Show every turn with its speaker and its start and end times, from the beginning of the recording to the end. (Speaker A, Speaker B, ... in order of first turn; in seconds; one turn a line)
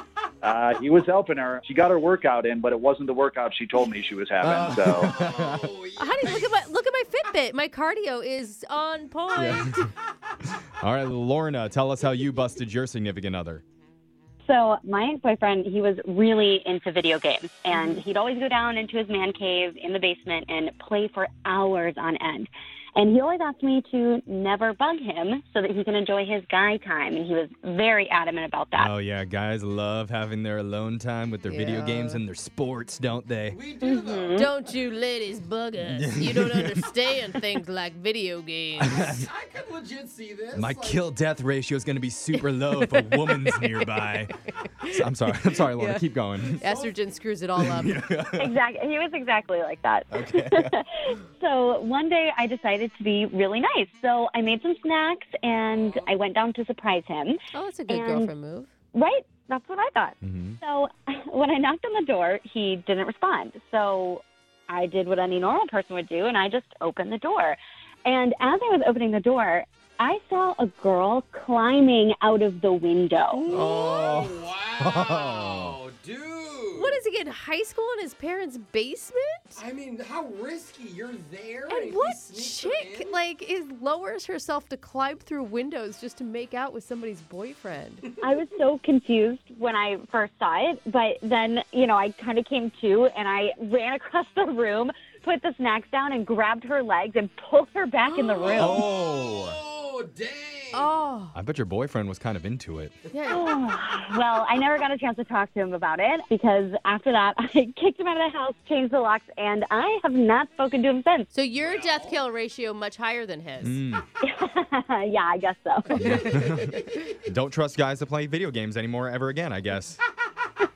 Speaker A: 0.4-5.1
Speaker B: 4.4-5.7
Speaker C: 4.4-6.6
Speaker D: 6.0-9.9
Speaker B: 9.3-9.8
Speaker B: 10.6-13.6
Speaker E: 14.4-28.9
Speaker D: 17.8-18.0
Speaker B: 28.7-33.6
Speaker D: 31.4-32.2
Speaker C: 33.5-34.7
Speaker E: 33.8-34.5
Speaker D: 34.3-39.0
Speaker B: 35.8-36.9
Speaker B: 38.8-39.3
Speaker C: 38.9-41.0
Speaker B: 40.5-44.3
Speaker D: 42.7-46.0
Speaker B: 44.9-46.6
Speaker C: 46.5-47.0
Speaker D: 46.6-48.0
Speaker B: 47.5-48.5
Speaker E: 48.4-58.3
Speaker B: 50.1-50.7
Speaker D: 57.5-58.7
Speaker E: 58.9-73.4
Speaker B: 60.2-60.6
Speaker D: 73.4-74.1
Speaker C: 73.5-77.0
Speaker B: 73.5-75.8
Speaker D: 76.8-79.6
Speaker C: 79.5-83.1
Speaker D: 81.7-88.0
Speaker E: 88.2-98.9
Speaker D: 98.0-98.8
Speaker C: 98.3-100.9
Speaker B: 98.5-99.6
Speaker D: 100.7-101.3
Speaker B: 101.3-102.9
Speaker D: 103.1-103.4
Speaker E: 103.3-111.3
Speaker D: 111.3-113.8
Speaker C: 111.5-112.2
Speaker B: 113.6-114.0
Speaker E: 114.2-116.3
Speaker B: 116.0-120.0